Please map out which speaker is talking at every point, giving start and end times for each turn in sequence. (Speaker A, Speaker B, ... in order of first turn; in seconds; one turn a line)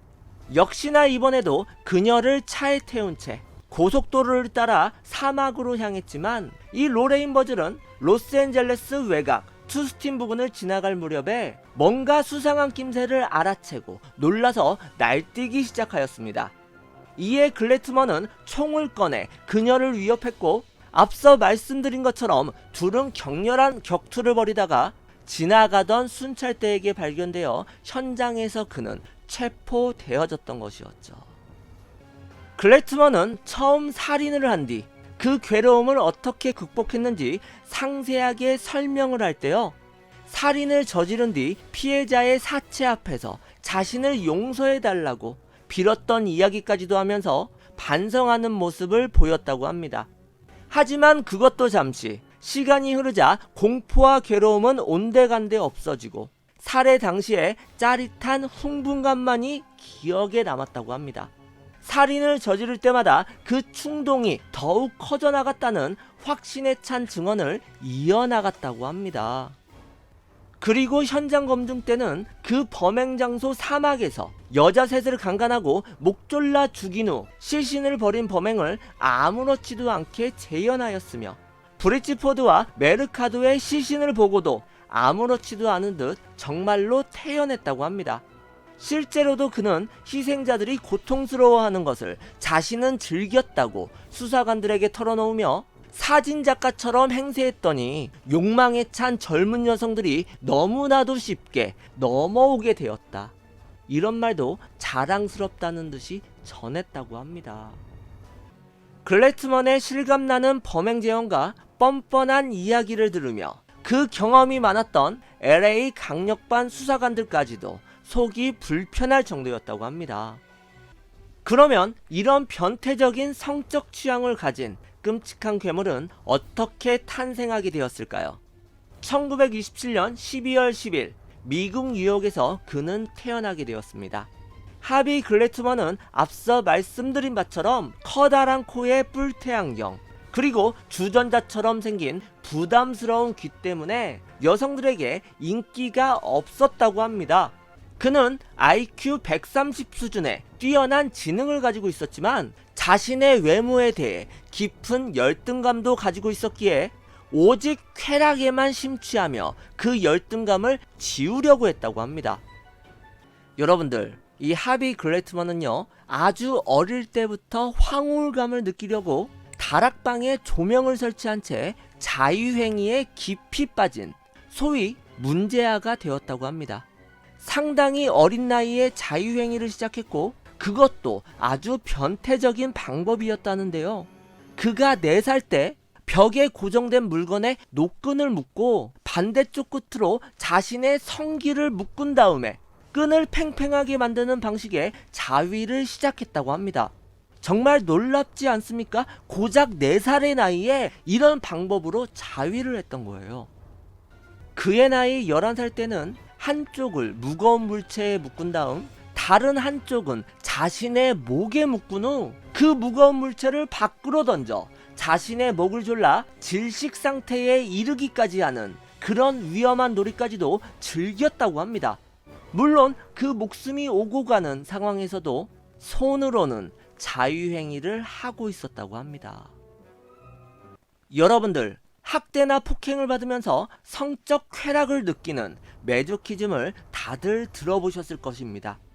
Speaker A: 0.5-16.5
Speaker A: 17.2-31.3
Speaker A: 32.6-39.7
Speaker A: 40.3-50.1
Speaker A: 50.7-61.3
Speaker A: 61.8-69.5
Speaker A: 70.6-88.2
Speaker A: 88.8-103.3
Speaker A: 103.9-107.8
Speaker A: 109.0-120.4
Speaker A: 121.4-128.4
Speaker A: 129.0-134.3
Speaker A: 134.8-162.4
Speaker A: 163.6-176.8
Speaker A: 177.4-203.5
Speaker A: 204.5-222.0
Speaker A: 222.5-229.5
Speaker A: 231.1-238.8